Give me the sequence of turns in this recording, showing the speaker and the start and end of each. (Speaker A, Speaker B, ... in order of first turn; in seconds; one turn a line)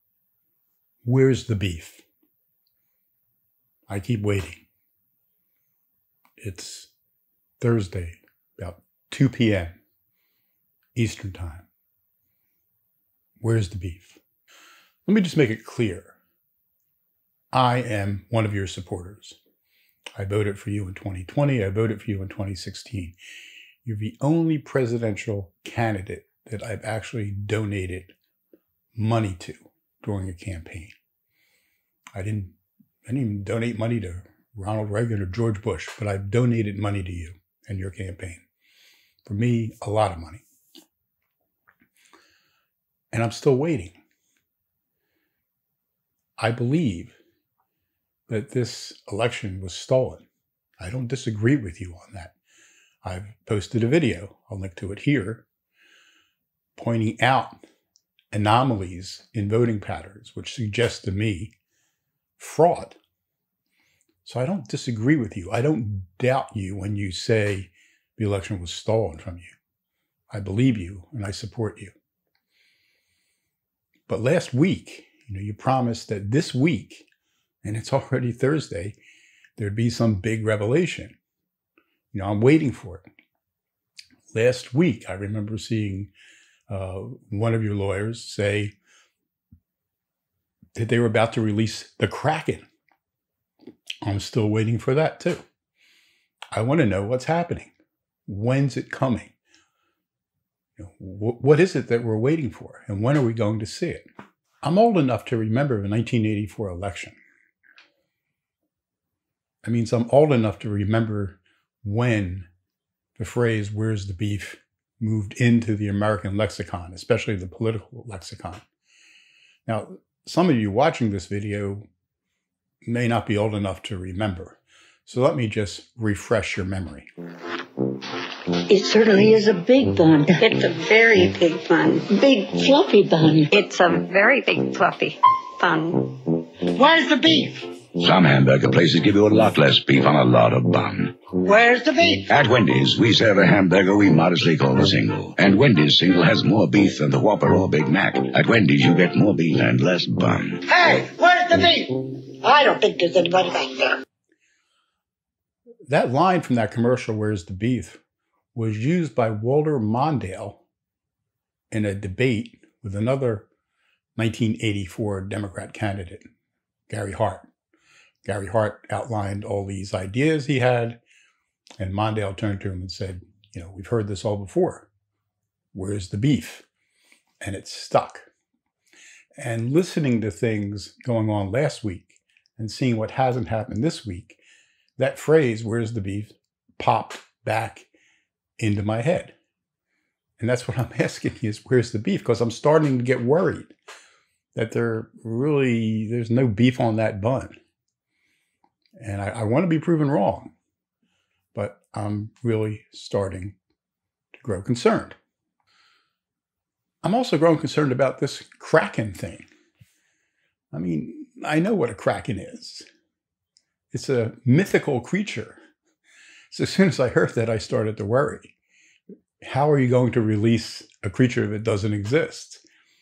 Speaker A: 1.0-2.0
Speaker A: 3.9-4.7
Speaker A: 6.4-6.9
Speaker A: 7.6-9.8
Speaker A: 10.9-11.7
Speaker A: 13.4-14.2
Speaker A: 15.1-16.2
Speaker A: 17.5-19.4
Speaker A: 20.2-23.2
Speaker A: 23.9-28.1
Speaker A: 28.9-30.9
Speaker A: 32.1-32.5
Speaker A: 33.1-38.4
Speaker A: 39.3-40.4
Speaker A: 43.1-44.0
Speaker A: 46.4-47.1
Speaker A: 48.3-50.2
Speaker A: 50.8-52.3
Speaker A: 53.0-55.5
Speaker A: 56.8-57.6
Speaker A: 58.3-61.5
Speaker A: 62.4-63.0
Speaker A: 64.2-69.5
Speaker A: 70.3-71.9
Speaker A: 74.1-77.1
Speaker A: 77.6-79.0
Speaker A: 79.6-81.2
Speaker A: 82.1-83.1
Speaker A: 84.3-86.1
Speaker A: 86.7-88.7
Speaker A: 90.8-92.7
Speaker A: 94.0-95.4
Speaker A: 96.5-97.7
Speaker A: 98.3-99.3
Speaker A: 100.8-104.1
Speaker A: 104.6-107.2
Speaker A: 109.6-112.5
Speaker A: 113.2-118.6
Speaker A: 119.7-121.9
Speaker A: 122.8-127.1
Speaker B: 128.7-130.4
Speaker C: 130.4-132.1
Speaker B: 132.1-133.5
Speaker C: 133.5-136.4
Speaker D: 136.7-137.6
Speaker E: 138.0-141.2
Speaker D: 141.4-142.3
Speaker E: 142.3-150.6
Speaker D: 150.7-154.0
Speaker A: 155.9-158.0
Speaker A: 158.5-160.6
Speaker A: 161.7-163.5
Speaker A: 164.2-166.3
Speaker A: 166.9-167.5
Speaker A: 168.2-171.0
Speaker A: 171.8-174.9
Speaker A: 175.7-176.7
Speaker A: 177.4-178.2
Speaker A: 179.4-184.4
Speaker A: 185.0-187.9
Speaker A: 188.6-189.3
Speaker A: 190.4-193.7
Speaker A: 194.6-197.6
Speaker A: 199.0-200.5
Speaker A: 201.5-203.6
Speaker A: 204.4-205.2
Speaker A: 207.0-209.5
Speaker A: 210.7-212.9
Speaker A: 213.9-215.6
Speaker A: 216.5-218.5
Speaker A: 219.4-222.6